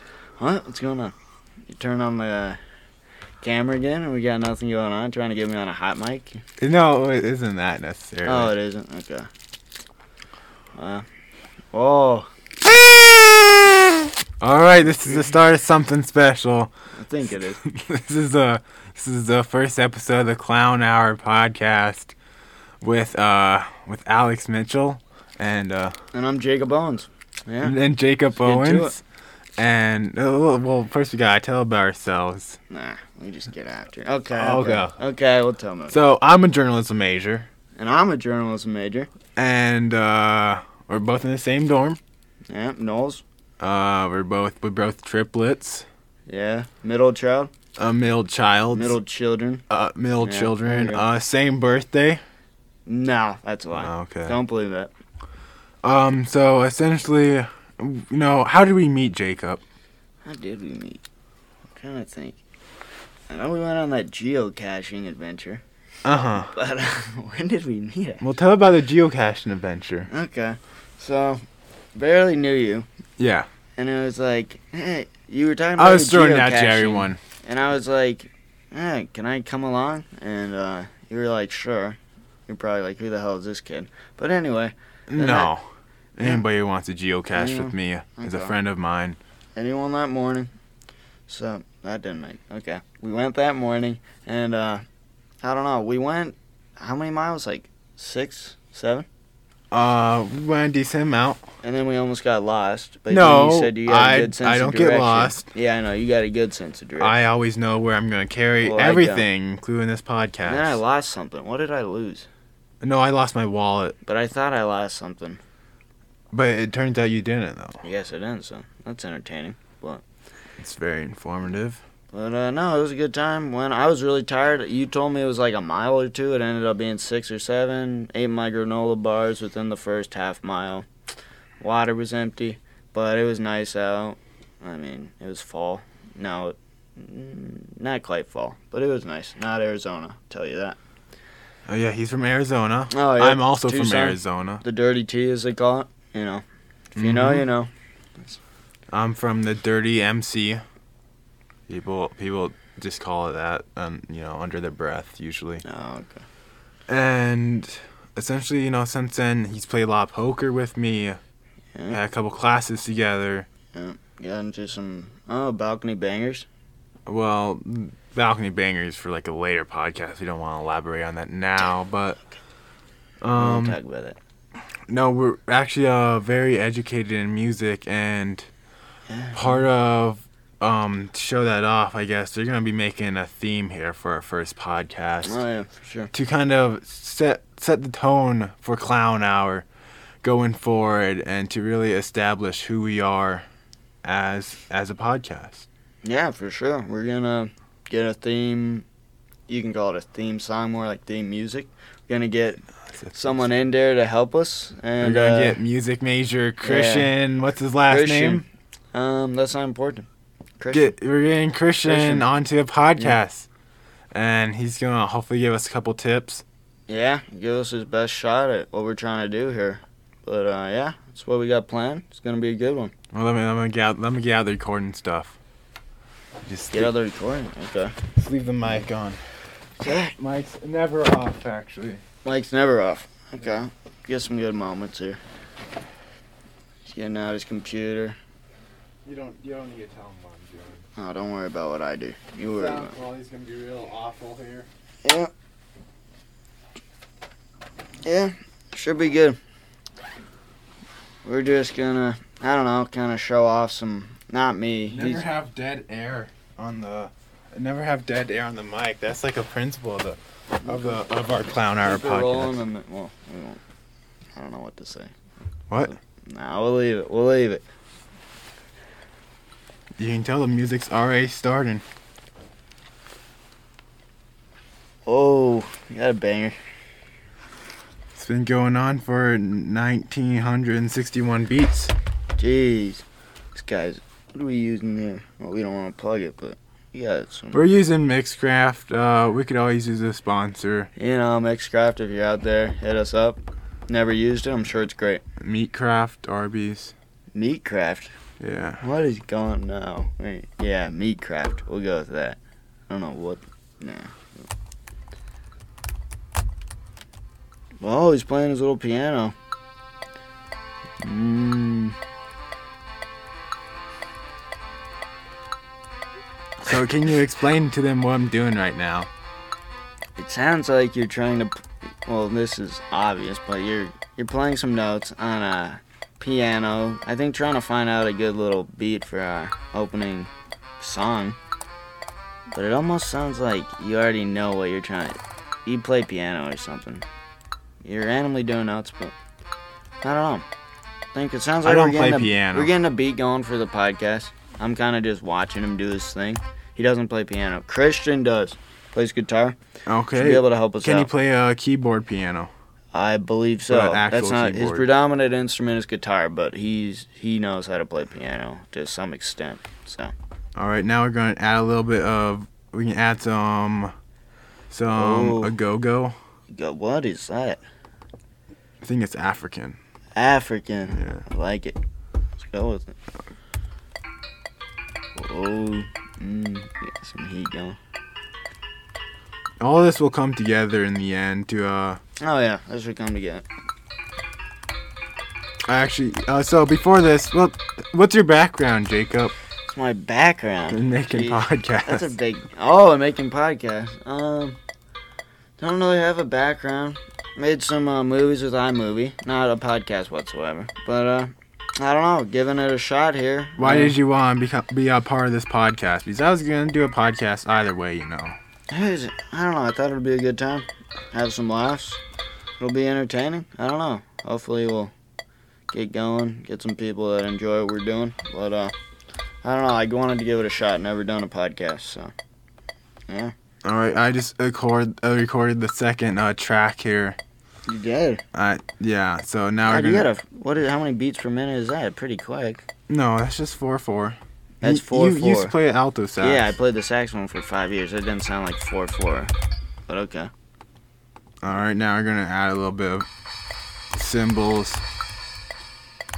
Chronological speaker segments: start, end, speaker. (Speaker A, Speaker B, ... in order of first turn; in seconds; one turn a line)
Speaker A: 0.4-1.1
Speaker A: 1.7-2.6
Speaker A: 3.4-6.4
Speaker B: 6.6-8.5
Speaker A: 8.2-9.3
Speaker A: 10.7-11.0
Speaker A: 11.7-12.3
Speaker B: 12.6-13.7
Speaker B: 14.4-16.7
Speaker A: 16.9-17.6
Speaker B: 17.6-22.1
Speaker B: 22.8-25.9
Speaker A: 26.1-27.8
Speaker B: 27.6-29.0
Speaker A: 28.4-29.0
Speaker B: 29.6-32.6
Speaker A: 32.7-36.0
Speaker B: 34.3-35.0
Speaker B: 35.9-37.5
Speaker A: 37.8-39.1
Speaker B: 39.4-42.0
Speaker A: 42.5-43.2
Speaker B: 43.6-45.9
Speaker A: 46.3-47.5
Speaker B: 47.8-49.0
Speaker A: 48.7-49.6
Speaker B: 49.7-52.2
Speaker A: 50.2-51.0
Speaker A: 52.9-54.9
Speaker B: 53.7-54.4
Speaker B: 55.8-59.6
Speaker A: 60.2-61.0
Speaker A: 61.8-62.4
Speaker A: 63.3-65.6
Speaker B: 66.0-66.5
Speaker A: 66.4-68.2
Speaker B: 68.2-70.1
Speaker A: 70.1-71.4
Speaker A: 72.0-72.9
Speaker B: 73.2-73.5
Speaker A: 73.8-85.5
Speaker B: 75.8-77.2
Speaker B: 85.1-89.2
Speaker A: 87.3-88.5
Speaker A: 89.6-90.5
Speaker A: 91.3-94.8
Speaker A: 95.4-99.1
Speaker B: 99.7-101.4
Speaker A: 101.6-107.2
Speaker B: 103.1-105.5
Speaker B: 107.0-110.8
Speaker A: 108.6-109.3
Speaker A: 110.5-112.3
Speaker B: 112.8-114.0
Speaker A: 114.0-115.4
Speaker B: 116.3-117.8
Speaker A: 117.8-120.0
Speaker B: 120.6-121.8
Speaker A: 122.1-130.9
Speaker A: 131.6-140.8
Speaker B: 141.7-144.6
Speaker A: 142.9-148.4
Speaker B: 147.0-147.4
Speaker B: 148.9-150.6
Speaker B: 151.7-155.6
Speaker A: 155.7-156.2
Speaker B: 156.9-161.2
Speaker B: 161.9-163.5
Speaker A: 163.7-166.5
Speaker B: 167.1-172.2
Speaker B: 173.2-173.8
Speaker A: 173.4-174.2
Speaker B: 174.9-178.5
Speaker A: 179.1-179.6
Speaker B: 179.3-185.4
Speaker A: 185.2-186.1
Speaker B: 186.1-189.7
Speaker B: 190.2-193.4
Speaker B: 194.0-195.7
Speaker A: 196.0-198.9
Speaker A: 199.5-205.6
Speaker B: 205.0-208.4
Speaker A: 206.6-207.1
Speaker A: 207.9-210.1
Speaker A: 210.6-211.0
Speaker B: 210.7-213.5
Speaker A: 211.8-212.3
Speaker B: 214.1-216.4
Speaker A: 216.9-222.9
Speaker B: 223.1-225.4
Speaker B: 226.4-226.9
Speaker A: 226.7-228.0
Speaker B: 228.2-229.2
Speaker A: 229.8-230.2
Speaker B: 230.2-232.0
Speaker A: 232.2-235.2
Speaker A: 236.9-238.2
Speaker B: 239.1-240.8
Speaker A: 241.0-243.0
Speaker B: 242.4-244.7
Speaker A: 245.1-245.3
Speaker A: 248.0-249.4
Speaker A: 251.2-255.3
Speaker B: 254.9-262.6
Speaker A: 260.6-260.9
Speaker A: 261.8-263.6
Speaker A: 264.4-265.1
Speaker B: 265.7-265.9
Speaker A: 265.8-267.6
Speaker B: 270.0-271.8
Speaker A: 275.1-276.6
Speaker B: 278.1-281.9
Speaker A: 282.4-283.0
Speaker A: 283.5-287.6
Speaker B: 287.5-290.9
Speaker A: 290.9-295.2
Speaker B: 295.4-296.9
Speaker A: 297.3-298.1
Speaker B: 298.4-298.8
Speaker A: 298.8-302.4
Speaker A: 302.9-304.3
Speaker A: 307.8-309.3
Speaker A: 311.0-311.9
Speaker B: 316.6-319.1
Speaker A: 320.2-331.4
Speaker A: 332.5-337.0
Speaker A: 337.8-339.1
Speaker A: 340.0-340.4
Speaker A: 341.1-349.6
Speaker B: 341.6-342.7
Speaker B: 349.9-352.5
Speaker A: 350.1-351.1
Speaker A: 352.9-360.1
Speaker B: 353.7-354.9
Speaker B: 360.6-363.9
Speaker B: 364.7-366.2
Speaker A: 364.9-365.5
Speaker A: 366.5-367.6
Speaker B: 368.8-369.8
Speaker A: 370.1-371.8
Speaker B: 370.9-371.2
Speaker A: 372.4-372.9
Speaker A: 375.1-377.8
Speaker B: 379.6-382.0
Speaker A: 382.2-383.4
Speaker B: 385.6-389.3
Speaker A: 389.6-394.6
Speaker B: 390.7-392.1
Speaker A: 395.6-404.0
Speaker B: 403.6-408.4
Speaker A: 408.7-412.0
Speaker A: 412.6-414.9
Speaker A: 415.7-418.7
Speaker A: 419.4-422.1
Speaker A: 423.1-423.3
Speaker B: 423.6-427.2
Speaker A: 427.7-428.2
Speaker B: 428.3-430.1
Speaker A: 429.7-432.6
Speaker B: 432.9-436.5
Speaker A: 434.6-435.5
Speaker A: 436.2-439.3
Speaker A: 439.9-440.3
Speaker B: 441.4-443.1
Speaker B: 443.9-444.8